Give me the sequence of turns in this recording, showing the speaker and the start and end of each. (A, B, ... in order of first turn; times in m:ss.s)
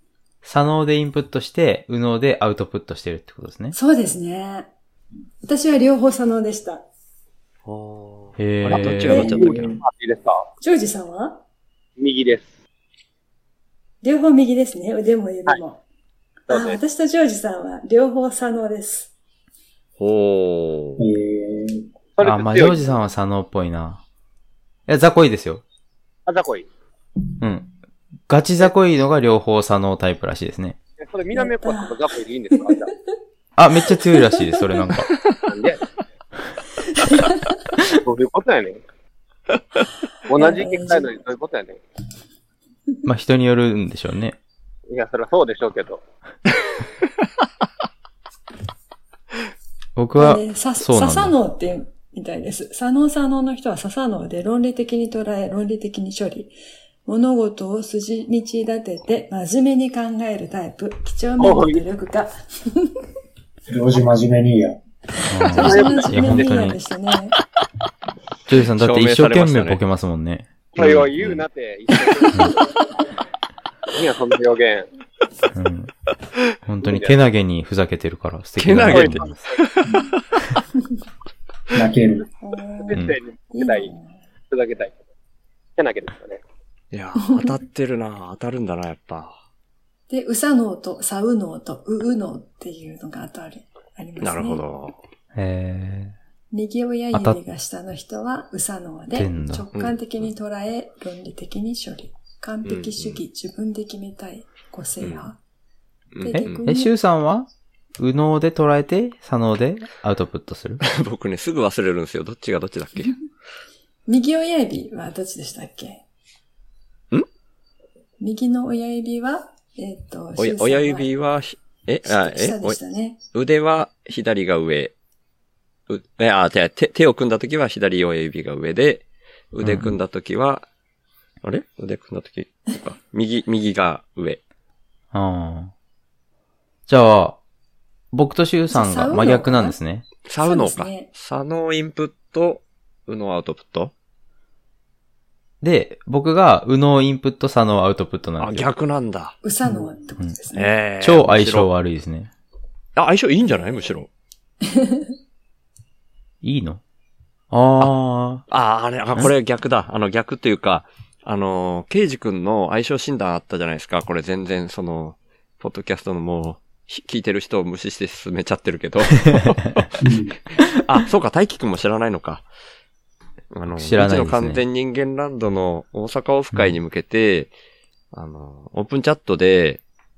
0:00.4-0:03.8 A
0:03.7-0:04.7 B
0:05.4-0:06.8 B
0:07.6-0:09.8 C
0:08.4-0:09.4 A
0:09.1-0:09.4 B
0:09.1-0:10.5 D
0:10.6-0:11.4 B
0:12.0-0:12.5 D
0:14.0-0:15.8 B
0:16.5-0:16.8 D
0:16.5-0:19.1 B
0:20.0-0:21.0 C
0:21.0-0:21.8 E
0:22.1-0:23.0 D
0:22.2-0:24.0 A
0:24.9-0:25.6 A
0:26.2-0:26.7 D
0:27.4-0:27.7 A
0:28.3-0:30.8 A
0:31.0-0:32.9 D
0:31.3-0:32.9 B
0:33.6-0:35.1 A
0:35.5-0:35.8 D
0:37.0-0:37.4 B
0:38.0-0:38.8 D
0:40.3-0:41.8 D
0:40.3-0:41.2 B
0:43.0-0:44.4 A
0:44.9-0:46.0 D
0:50.0-0:51.3 A
0:50.2-0:56.5 B
0:57.0-1:02.9 B
1:01.4-1:01.8 D
1:03.7-1:04.8 E
1:05.3-1:06.8 A
1:05.4-1:07.3 B
1:05.6-1:06.5 D
1:08.5-1:10.5 A
1:08.8-1:09.8 C
1:10.7-1:12.9 D
1:10.8-1:11.3 C
1:13.9-1:14.9 D
1:15.5-1:15.9 A
1:16.6-1:19.4 A
1:16.8-1:17.1 D
1:18.6-1:20.0 C
1:18.8-1:19.6 D
1:19.8-1:20.1 E
1:21.7-1:22.3 E
1:22.4-1:24.2 B
1:22.8-1:23.9 D
1:24.5-1:25.0 D
1:25.8-1:26.4 D
1:26.9-1:29.4 C
1:27.2-1:27.6 B
1:30.1-1:34.6 B
1:34.2-1:35.0 C
1:35.3-1:36.1 A
1:36.5-1:45.4 B
1:37.1-1:37.4 A
1:39.1-1:39.7 A
1:42.6-1:43.2 C
1:45.0-1:45.2 C
1:46.1-1:46.6 C
1:46.2-1:46.9 B
1:46.3-1:50.8 A
1:50.8-1:53.2 C
1:54.1-1:56.0 B
1:58.2-2:01.1 B
2:00.4-2:02.8 C
2:02.0-2:03.2 B
2:03.3-2:04.9 C
2:05.9-2:10.6 C
2:09.6-2:10.0 A
2:11.4-2:14.4 C
2:15.1-2:15.7 A
2:16.9-2:17.4 A
2:18.1-2:20.1 A
2:18.7-2:19.8 B
2:20.2-2:23.9 C
2:20.4-2:21.1 B
2:25.6-2:28.7 A
2:28.4-2:29.4 C
2:29.4-2:30.7 B
2:29.6-2:30.0 E
2:30.5-2:31.7 C
2:31.0-2:32.3 A
2:33.0-2:34.1 C
2:33.5-2:33.9 B
2:34.6-2:35.1 B
2:36.4-2:36.8 A
2:37.5-2:38.4 A
2:38.5-2:49.9 C
2:49.3-2:49.8 A
2:50.0-2:50.3 E
2:50.8-2:52.4 C
2:53.5-2:57.5 C
2:53.7-2:54.6 A
2:58.1-2:59.8 C